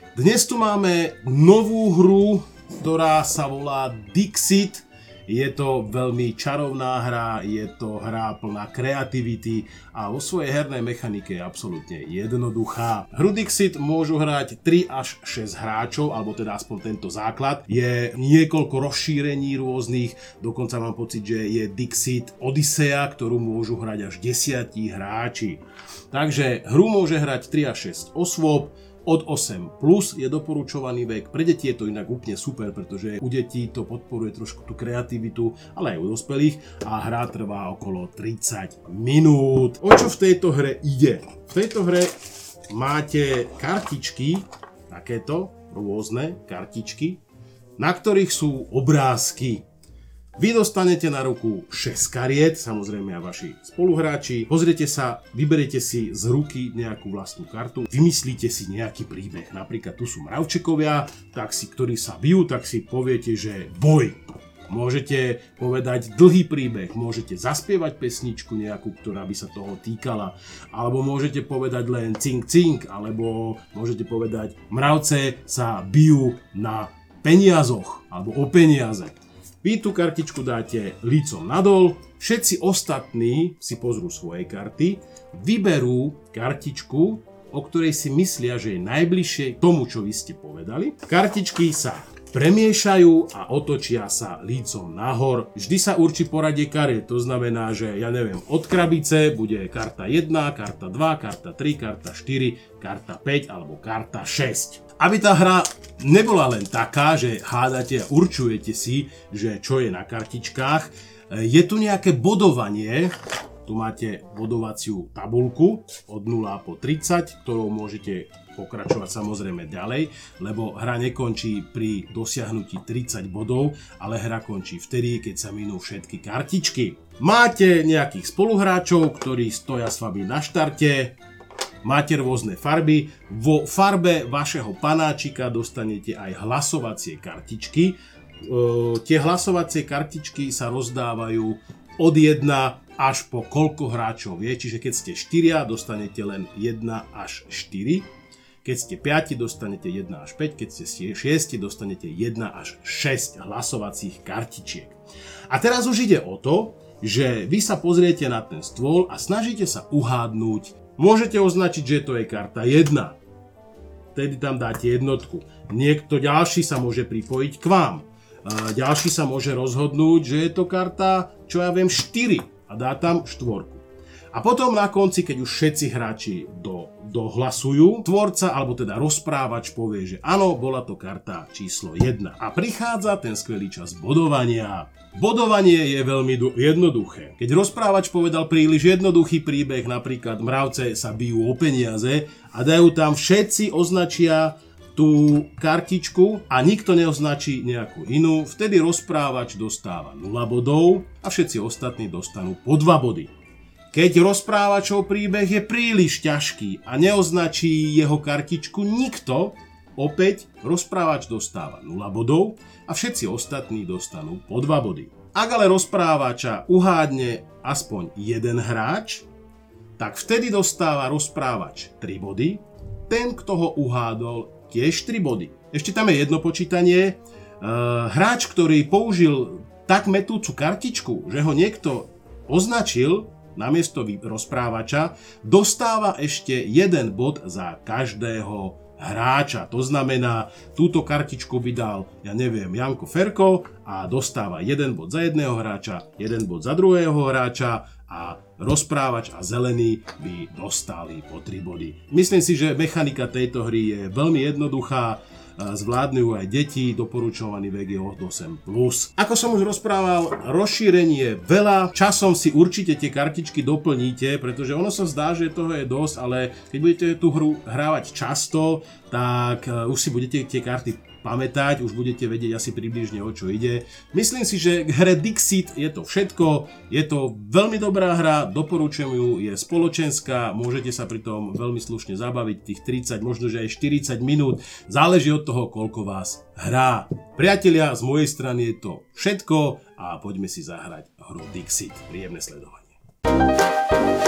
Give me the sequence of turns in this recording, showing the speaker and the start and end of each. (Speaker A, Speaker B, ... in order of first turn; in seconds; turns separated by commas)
Speaker A: 0.1-42.1, Speaker A: 42.7-47.2, Speaker A: 47.8-49.6, Speaker A: 50.4-113.1, Speaker A: 113.7-131.2, Speaker A: 131.8-148.1, Speaker A: 148.6-155.0, Speaker A: 155.5-163.2, Speaker A: 164.2-203.3, Speaker A: 203.9-219.2, Speaker A: 220.0-292.9